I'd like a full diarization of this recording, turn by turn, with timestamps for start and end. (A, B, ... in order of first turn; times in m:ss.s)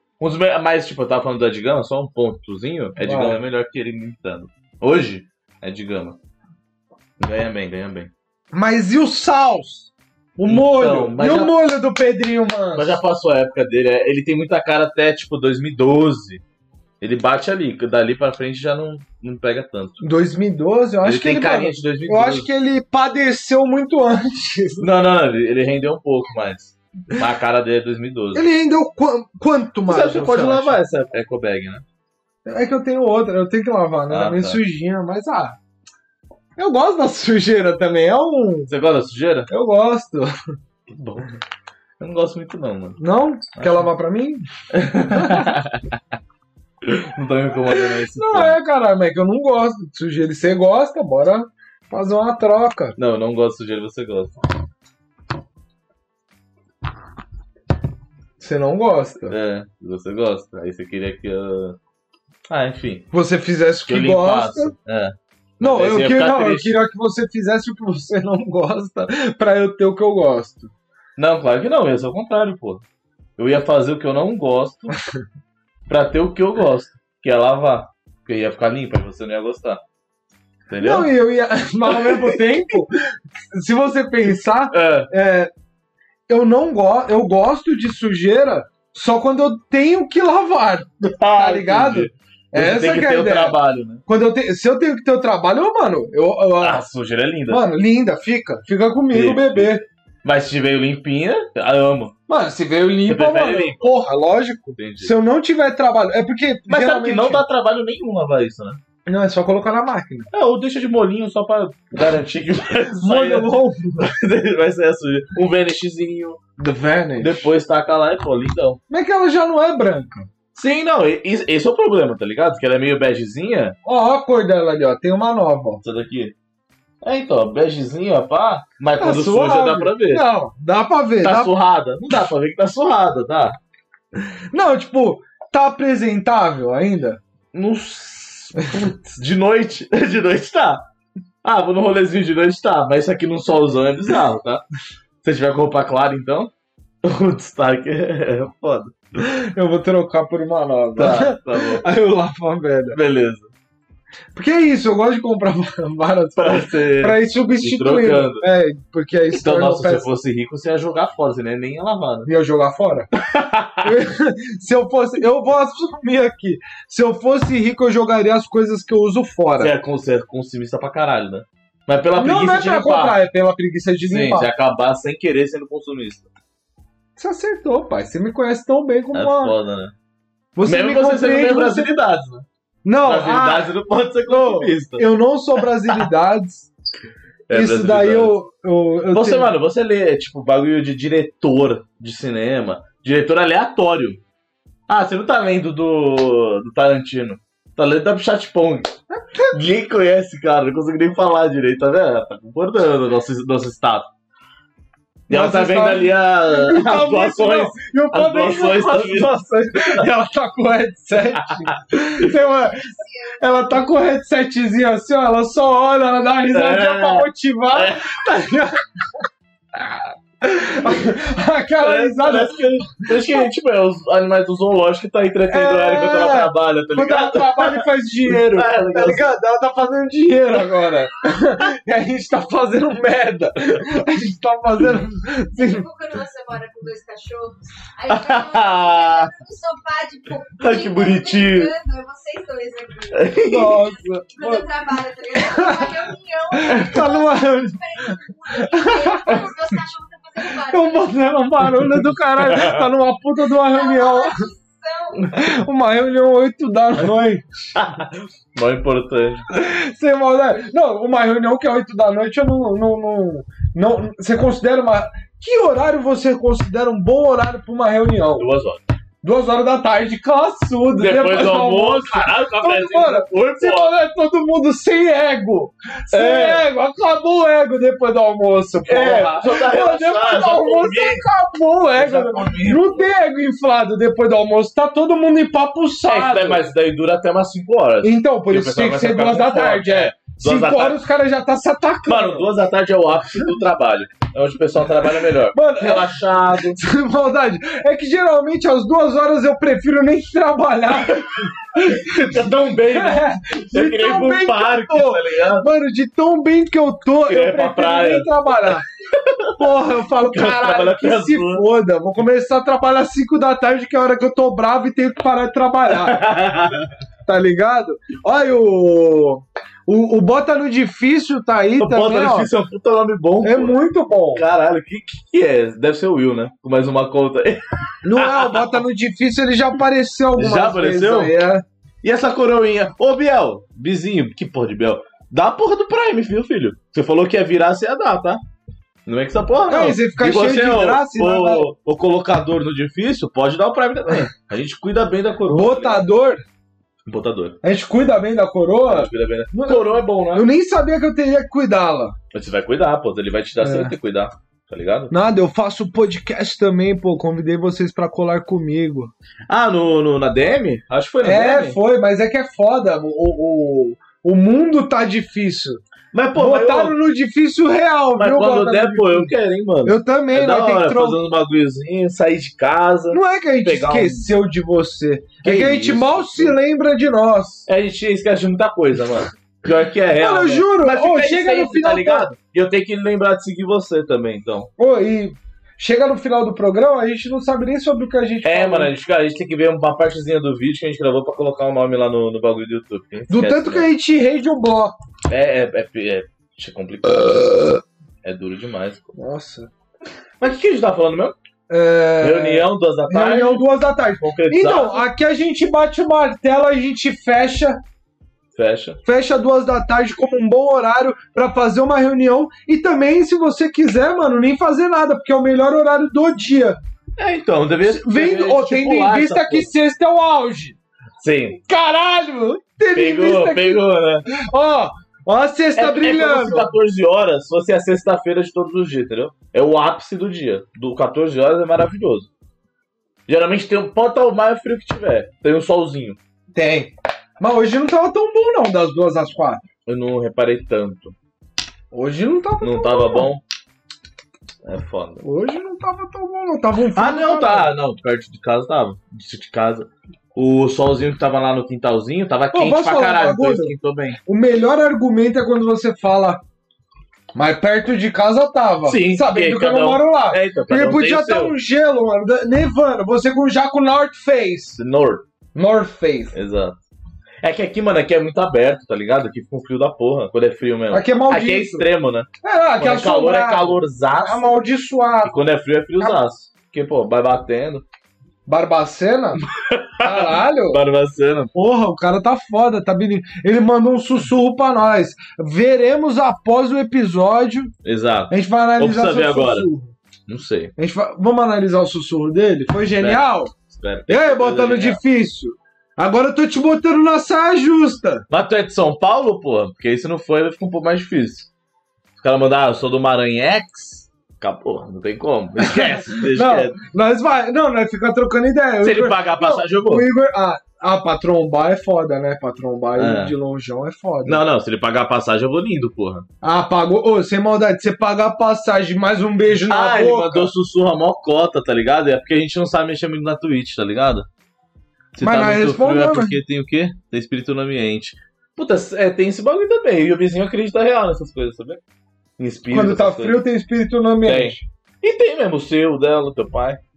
0:00.2-0:06.2 A
0:03.0-0:03.4 B
0:07.2-0:08.1 A
0:08.5-0:13.0 B
0:10.5-0:11.5 A
0:12.7-0:16.4 A
0:17.0-0:20.1 A
0:20.0-0:24.8 B
0:21.0-0:22.5 A
0:24.8-0:28.4 A
0:28.3-0:30.8 B
0:29.9-0:31.8 A
0:32.4-0:35.6 B
0:34.1-0:34.6 A
0:36.6-0:38.7 B
0:38.7-0:39.5 A
0:39.5-0:40.3 B
0:40.9-0:41.4 A
0:42.0-0:43.0 A
0:43.0-0:44.4 B
0:43.5-0:43.9 A
0:44.7-0:46.0 A
0:45.1-0:45.6 B
0:46.8-0:48.6 A
0:47.7-0:53.0 B
0:53.0-0:54.4 A
0:58.4-0:59.3 B
0:59.3-1:01.8 A
1:02.5-1:03.1 A
1:03.1-1:04.7 B
1:03.9-1:06.8 A
1:05.6-1:10.7 B
1:11.2-1:12.8 A
1:13.4-1:14.9 A
1:15.9-1:19.8 A
1:20.7-1:21.1 A
1:20.8-1:25.5 B
1:21.9-1:22.4 A
1:24.7-1:25.1 A
1:26.3-1:36.8 B
1:31.0-1:34.0 A
1:36.6-1:37.6 A
1:37.5-1:39.8 B
1:39.1-1:42.1 A
1:42.3-1:47.4 B
1:43.1-1:44.0 A
1:44.8-1:45.1 A
1:46.7-1:48.8 A
1:49.0-1:50.3 B
1:50.3-1:56.4 A
1:52.9-1:54.0 B
1:56.6-1:57.5 B
1:57.2-1:58.8 A
1:58.9-2:00.3 B
2:00.5-2:03.8 A
2:03.8-2:05.8 B
2:05.8-2:06.3 A
2:07.0-2:10.2 A
2:09.0-2:11.5 B
2:11.2-2:13.6 A
2:14.5-2:17.2 B
2:17.5-2:20.8 A
2:21.4-2:24.6 A
2:25.2-2:26.5 A
2:27.0-2:28.9 A
2:29.2-2:33.0 B
2:31.0-2:31.8 A
2:32.9-2:33.5 A
2:34.3-2:40.0 B
2:36.4-2:38.4 A
2:39.3-2:42.3 A
2:42.2-2:43.1 B
2:43.1-2:44.0 A
2:43.8-2:49.7 B
2:49.6-2:53.2 A
2:52.2-2:54.5 B
2:54.1-2:56.3 A
2:57.2-2:59.5 B
2:59.1-2:59.9 A
3:00.6-3:01.9 B
3:00.6-3:02.4 A
3:02.8-3:03.7 B
3:03.0-3:05.1 A
3:04.3-3:06.7 B
3:07.5-3:08.3 A
3:07.5-3:09.5 B
3:09.1-3:14.2 A
3:14.9-3:18.9 A
3:19.1-3:19.6 B
3:19.5-3:24.1 A
3:25.3-3:30.0 A
3:25.3-3:38.8 B
3:31.4-3:32.3 A
3:32.9-3:33.4 C
3:36.5-3:38.6 A
3:40.4-3:43.5 B
3:41.8-3:49.3 A
3:45.5-3:55.8 B
3:55.5-4:11.1 C
3:58.1-3:59.3 A
4:00.6-4:01.7 A
4:03.1-4:03.8 A
4:03.4-4:04.7 B
4:05.3-4:09.5 B
4:06.7-4:07.0 A
4:10.6-4:14.4 B
4:12.4-4:12.8 A
4:13.4-4:15.4 C
4:15.3-4:17.7 B
4:17.7-4:19.4 A
4:19.5-4:28.5 B
4:28.4-4:28.8 A
4:29.2-4:46.6 B
4:31.0-4:33.9 A
4:36.1-4:36.6 A
4:38.8-4:41.2 A
4:42.0-4:43.1 A
4:46.1-4:51.0 A
4:48.0-4:52.5 B
4:52.1-4:56.8 A
4:55.5-5:08.8 B
5:01.1-5:05.7 A
5:07.3-5:09.6 A
5:09.6-5:16.2 B
5:10.2-5:11.6 A
5:15.9-5:16.9 A
5:17.2-5:22.5 B
5:21.8-5:23.8 A
5:23.4-5:24.4 B
5:24.3-5:28.8 A
5:28.0-5:31.6 B
5:30.4-5:31.3 A
5:32.0-5:38.4 A
5:39.0-5:46.0 A
5:39.6-5:41.7 B
5:45.5-5:46.4 B
5:47.1-5:47.6 A
5:47.6-5:52.1 B
5:48.9-5:50.5 A
5:52.3-5:55.1 A
5:53.6-5:53.9 B
5:55.1-5:59.1 B
5:59.5-6:01.8 A
6:01.2-6:05.8 B
6:06.1-6:07.0 A
6:06.3-6:09.3 B
6:08.2-6:14.3 A
6:09.8-6:11.2 B
6:13.1-6:17.6 B
6:15.4-6:16.6 A
6:17.6-6:24.7 A
6:20.2-6:22.3 B
6:24.8-6:28.9 B
6:28.4-6:33.9 A
6:33.3-6:34.9 B
6:35.3-6:39.1 A
6:39.1-6:39.7 B
6:40.4-6:41.4 A
6:41.7-6:47.8 B
6:42.2-6:43.7 A
6:44.2-6:45.0 A
6:48.5-6:49.0 A
6:49.0-6:56.8 B
6:57.2-6:59.7 A
6:57.8-7:00.8 B
7:01.2-7:01.6 A
7:01.6-7:06.7 B
7:02.9-7:04.3 A
7:05.7-7:12.3 A
7:13.3-7:16.2 A
7:16.5-7:19.6 B
7:19.9-7:21.1 A
7:21.9-7:23.3 B
7:22.6-7:23.4 A
7:24.6-7:25.2 A
7:25.2-7:27.7 B
7:27.0-7:34.2 A
7:32.5-7:33.7 B
7:34.2-7:36.4 B
7:37.3-7:44.8 B
7:38.8-7:41.5 A
7:44.8-7:45.2 A
7:45.5-7:46.3 B
7:46.3-7:46.8 A
7:47.4-7:52.3 A
7:50.9-7:51.9 B
7:52.4-7:55.4 B
7:52.8-7:54.5 A
7:55.2-7:57.8 A
7:58.4-7:59.4 B
7:59.4-8:01.5 A
8:00.0-8:00.8 B
8:01.5-8:07.7 B
8:07.8-8:09.7 A
8:08.3-8:09.9 B
8:10.3-8:10.7 A
8:10.8-8:13.5 B
8:13.0-8:15.0 A
8:14.1-8:18.2 B
8:18.3-8:21.5 A
8:22.2-8:26.8 A
8:25.6-8:34.4 B
8:28.8-8:30.1 A
8:33.0-8:33.3 A
8:34.2-8:36.3 A
8:36.4-8:40.5 B
8:39.7-8:44.3 A
8:45.1-8:51.8 A
8:45.2-8:46.4 B
8:52.4-8:53.4 A
8:52.7-8:54.6 B
8:54.2-8:56.8 A